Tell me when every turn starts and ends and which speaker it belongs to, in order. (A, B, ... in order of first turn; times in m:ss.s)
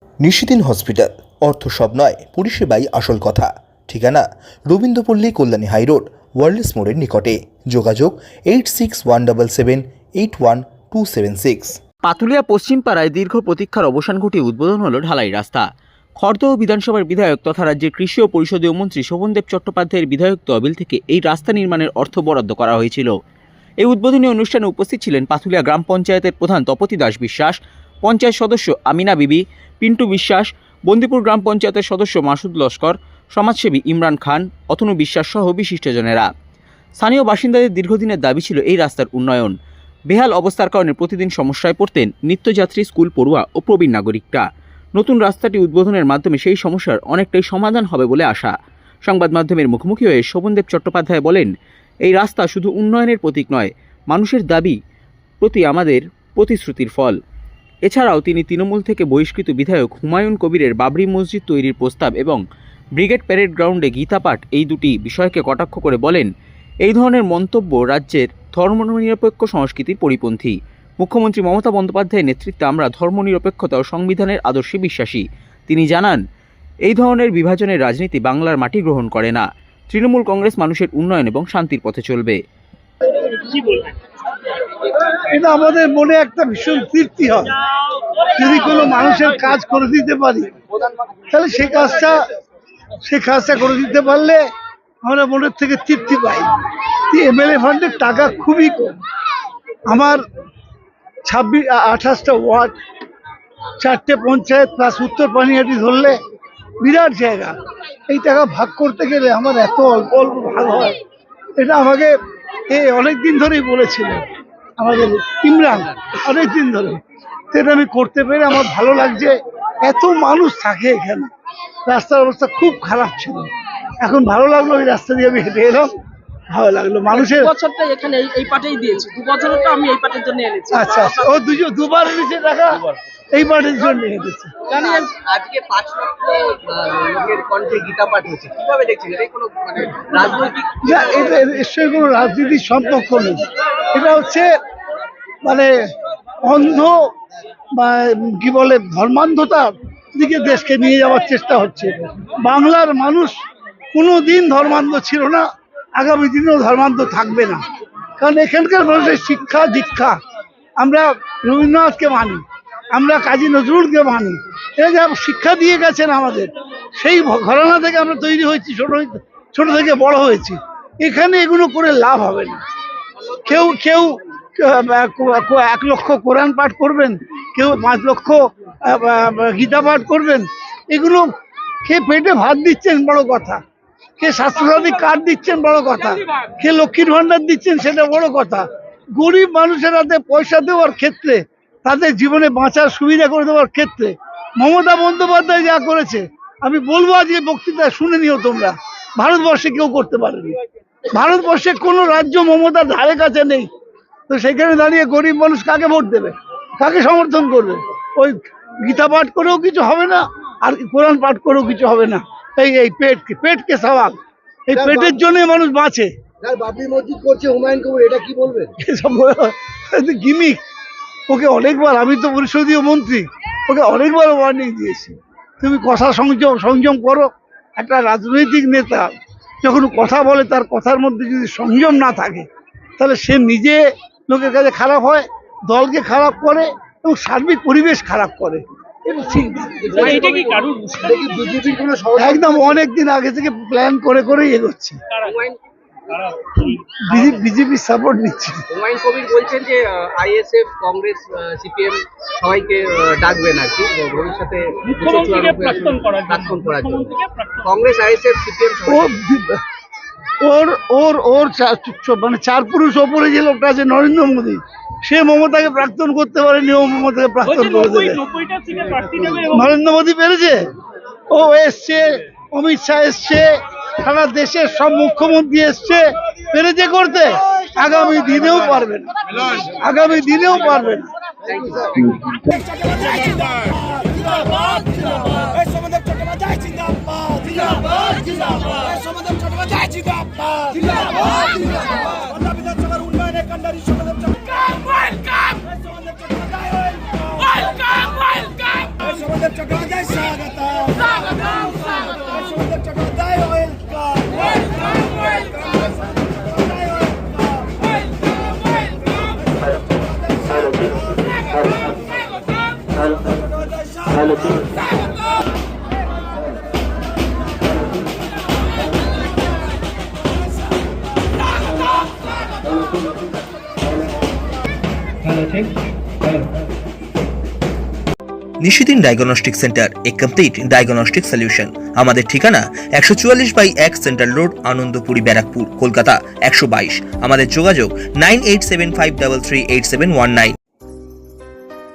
0:00.2-0:11.7 A
0:12.0-0:15.6 B
0:16.2-0:23.1 B
0:23.8-0:36.3 B
0:37.0-0:39.5 B
0:40.1-0:44.4 B
0:45.0-0:48.5 B
0:49.0-0:51.5 B
0:52.0-0:54.7 B
0:55.4-0:57.2 B
0:57.8-1:02.4 B
1:03.0-1:06.3 B
1:06.8-1:16.2 B
1:16.8-1:22.4 B
1:25.3-1:27.5 C
1:28.4-1:30.5 C
1:31.3-1:32.2 C
1:33.0-1:34.4 C
1:35.0-1:36.5 C
1:37.1-1:39.0 C
1:39.9-1:40.2 C
1:41.2-1:42.7 C
1:43.8-1:46.2 C
1:46.8-1:47.5 C
1:48.1-1:51.0 C
1:51.6-1:52.1 C
1:52.7-1:54.2 C
1:54.8-1:57.0 C
1:57.5-2:01.3 C
2:01.9-2:03.5 C
2:04.0-2:05.9 C
2:06.5-2:07.5 C
2:07.2-2:07.8 D
2:10.7-2:12.8 C
2:13.3-2:14.5 C
2:14.7-2:21.4 E
2:20.8-2:23.4 C
2:23.9-2:24.5 C
2:25.4-2:25.7 C
2:26.4-2:27.0 C
2:27.8-2:33.4 C
2:33.9-2:37.6 C
2:38.2-2:40.2 C
2:40.8-2:52.6 C
2:53.4-3:01.3 C
3:01.8-3:03.6 C
3:04.2-3:20.6 C
3:21.1-3:23.7 C
3:24.3-3:34.2 C
3:34.7-3:36.1 C
3:34.7-3:35.2 F
3:36.4-3:38.7 F
3:38.8-3:40.6 C
3:41.3-3:52.4 C
3:53.0-4:00.2 C
3:59.8-4:00.7 E
4:00.0-4:01.4 D
4:01.0-4:02.8 F
4:02.2-4:05.0 C
4:05.2-4:05.6 E
4:06.1-4:06.4 D
4:06.6-4:08.6 C
4:07.1-4:07.4 E
4:08.7-4:19.1 E
4:14.9-4:17.7 D
4:18.9-4:19.6 C
4:20.4-4:28.2 C
4:27.5-4:29.6 D
4:29.4-4:30.6 C
4:31.3-4:41.1 C
4:41.4-4:42.1 E
4:41.6-4:41.8 F
5:28.6-5:40.5 A